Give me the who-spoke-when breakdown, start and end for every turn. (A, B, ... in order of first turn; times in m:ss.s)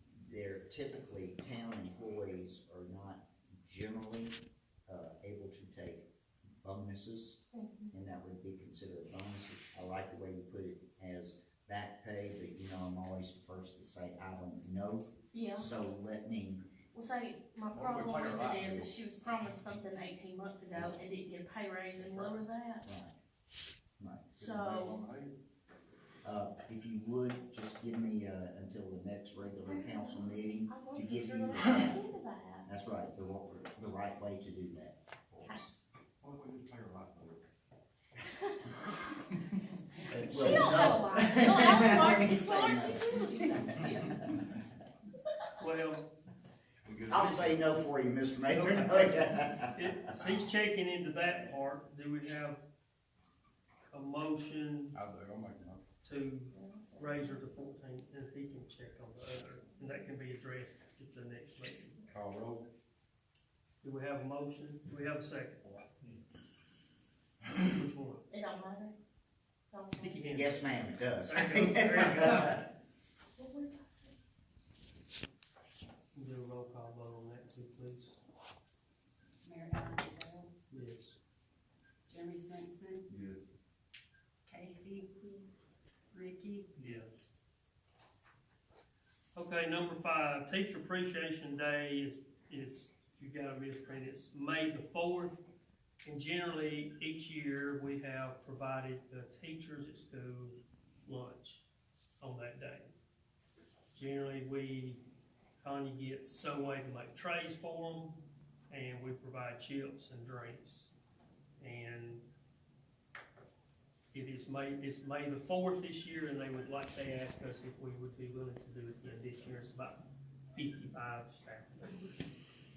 0:00.1-0:06.1 A
0:06.6-0:07.4 A
0:07.5-0:07.9 B
0:07.9-0:16.6 A
0:15.3-0:15.7 B
0:16.9-0:22.8 B
0:17.7-0:18.8 C
0:18.6-0:19.1 A
0:22.0-0:23.1 A
0:24.0-0:24.3 A
0:24.4-0:25.3 C
0:24.4-0:25.0 B
0:26.2-0:32.0 A
0:29.6-0:32.6 B
0:32.6-0:35.7 A
0:36.2-0:37.4 C
0:40.1-0:44.3 A
0:40.3-0:44.2 B
0:45.6-0:46.1 D
0:46.8-0:47.6 C
0:47.1-0:50.0 A
0:48.5-0:52.6 D
0:53.9-0:54.9 D
0:54.9-0:55.8 C
0:56.0-1:02.0 D
0:56.5-0:57.4 B
1:02.1-1:02.6 C
1:03.8-1:05.8 D
1:07.6-1:08.2 D
1:08.3-1:08.9 B
1:09.7-1:10.3 B
1:10.0-1:12.6 D
1:10.3-1:12.6 A
1:13.4-1:14.1 B
1:16.1-1:18.1 D
1:19.4-1:20.5 E
1:20.7-1:21.2 D
1:22.1-1:23.0 E
1:23.1-1:23.4 C
1:24.5-1:25.5 E
1:26.1-1:26.7 E
1:26.8-1:27.1 D
1:29.3-1:35.4 D
1:36.0-1:41.6 D
1:42.2-1:42.9 D
1:43.9-1:45.0 D
1:45.6-1:48.2 D
1:48.7-1:50.9 D
1:51.6-1:52.2 D
1:54.1-2:00.0 D
2:00.5-2:02.3 D